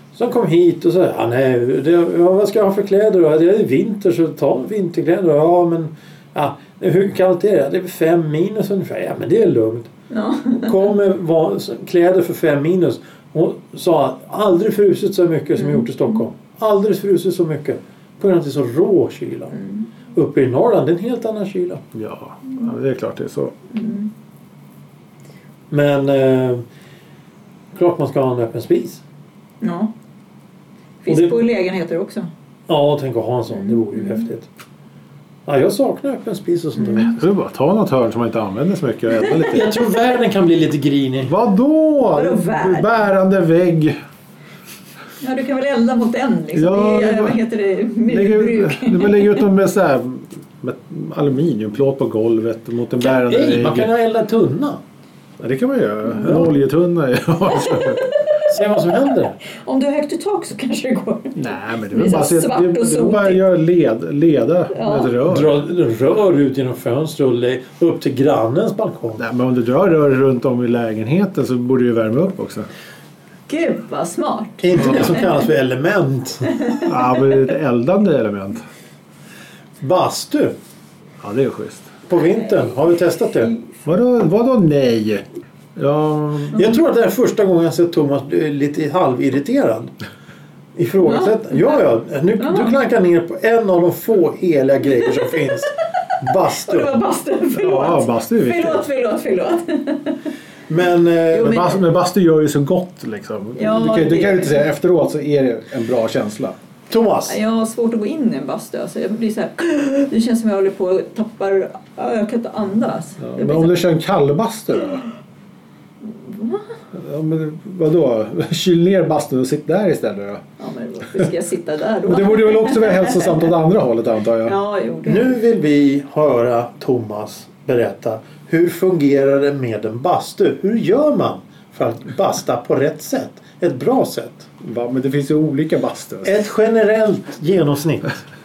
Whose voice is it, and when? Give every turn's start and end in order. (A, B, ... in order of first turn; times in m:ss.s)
0:00.1-0:09.9 A
0:10.1-0:10.8 B
0:10.6-0:19.6 A
0:15.5-0:16.2 B
0:19.5-0:19.9 B
0:20.1-0:21.8 A
0:21.9-0:23.5 C
0:23.7-0:24.1 B
0:25.7-0:26.6 A
0:27.7-0:29.0 A
0:29.6-0:29.9 B
0:31.0-0:32.3 B
0:31.1-0:31.4 A
0:32.7-0:34.5 A
0:33.5-0:34.3 B
0:35.4-0:37.2 A
0:36.8-0:37.1 B
0:36.9-0:39.7 C
0:39.4-0:41.3 A
0:41.2-0:44.0 C
0:42.1-0:42.9 B
0:45.2-0:49.4 B
0:46.5-0:47.4 C
0:48.1-0:53.9 C
0:53.0-0:54.8 A
0:55.4-0:58.1 C
0:56.2-0:56.5 A
0:57.5-0:58.4 B
0:58.5-0:59.4 A
0:59.4-1:03.4 B
1:01.4-1:05.6 C
1:04.7-1:05.1 B
1:05.2-1:09.2 A
1:09.2-1:12.7 C
1:13.5-1:15.3 B
1:14.6-1:16.5 A
1:16.5-1:16.9 B
1:16.8-1:18.6 C
1:19.8-1:20.5 A
1:21.2-1:21.9 C
1:22.1-1:23.5 A
1:23.4-1:23.7 B
1:23.8-1:25.2 C
1:25.8-1:26.6 C
1:26.5-1:29.9 A
1:30.8-1:37.0 A
1:31.0-1:31.7 B
1:32.4-1:32.7 B
1:36.5-1:40.3 B
1:37.5-1:38.8 C
1:40.7-1:41.8 A
1:41.3-1:46.6 C
1:41.4-1:41.7 B
1:43.6-1:44.6 B
1:46.9-1:47.4 A
1:47.3-1:53.8 B
1:53.2-1:55.1 C
1:56.0-1:56.8 B
1:56.9-2:00.4 C
2:00.6-2:03.5 B
2:02.0-2:04.6 C
2:04.4-2:05.4 B
2:05.0-2:14.5 A
2:14.6-2:16.4 C
2:16.2-2:18.2 A